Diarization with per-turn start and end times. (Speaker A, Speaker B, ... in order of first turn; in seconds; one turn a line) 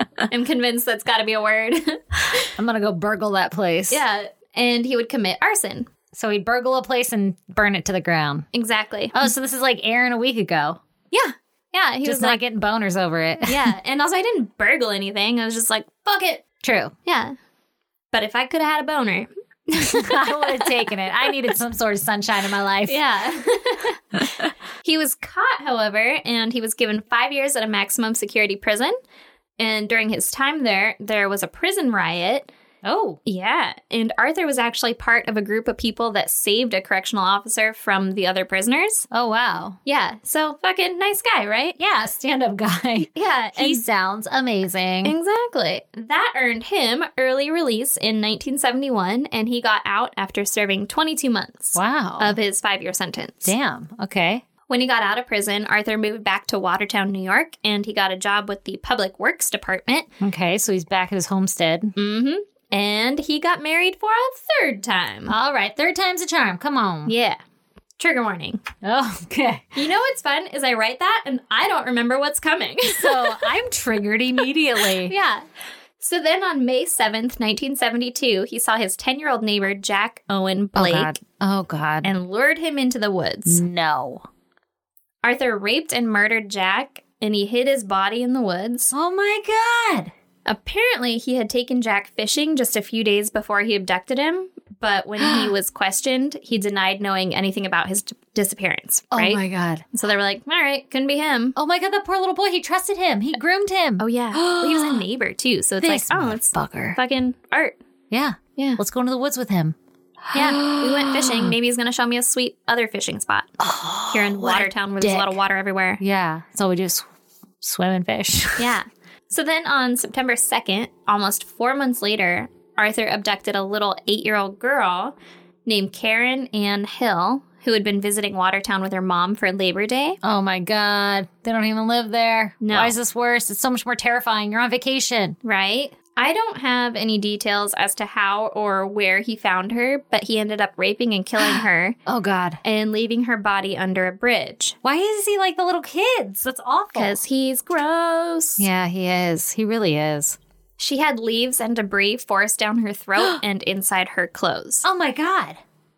Speaker A: 0.3-2.5
Speaker B: 2.6-4.0
Speaker A: 3.9-5.9
Speaker B: 6.1-8.5
Speaker A: 8.5-9.3
Speaker B: 9.2-10.8
Speaker A: 11.1-12.4
Speaker B: 12.0-13.7
Speaker A: 13.5-16.4
Speaker B: 16.6-16.9
Speaker A: 17.1-17.4
Speaker A: 18.1-20.8
Speaker B: 19.8-23.0
Speaker A: 22.9-29.0
Speaker A: 29.6-32.5
Speaker B: 32.8-33.2
Speaker A: 33.3-39.1
Speaker B: 39.1-39.8
Speaker A: 39.9-41.8
Speaker B: 41.8-45.1
Speaker A: 43.0-43.9
Speaker A: 45.0-53.5
Speaker B: 51.8-52.4
Speaker B: 53.5-54.4
Speaker A: 54.7-60.1
Speaker B: 60.2-61.9
Speaker A: 62.0-65.3
Speaker B: 65.3-67.1
Speaker A: 67.1-67.4
Speaker A: 68.0-68.7
Speaker B: 68.8-69.7
Speaker A: 69.8-73.5
Speaker B: 72.9-75.1
Speaker A: 75.0-75.5
Speaker A: 76.0-81.1
Speaker B: 80.8-82.1
Speaker A: 82.0-83.6
Speaker B: 83.5-84.3
Speaker A: 85.2-88.9
Speaker B: 88.9-90.1
Speaker A: 90.5-101.6
Speaker B: 95.2-95.5
Speaker B: 99.1-99.8
Speaker B: 101.6-105.0
Speaker A: 104.0-107.8
Speaker B: 105.8-107.0
Speaker B: 108.1-109.8
Speaker B: 110.3-111.5
Speaker A: 110.3-113.6
Speaker B: 113.6-115.4
Speaker A: 114.1-116.0
Speaker B: 116.0-117.1
Speaker B: 117.6-118.8
Speaker A: 118.6-125.1
Speaker A: 125.7-130.2
Speaker B: 130.2-135.4
Speaker A: 132.6-133.0
Speaker A: 135.4-142.0
Speaker B: 141.4-142.6
Speaker A: 142.6-144.8
Speaker B: 144.8-147.2
Speaker A: 146.9-148.7
Speaker B: 148.6-150.4
Speaker A: 150.8-154.9
Speaker B: 154.8-155.6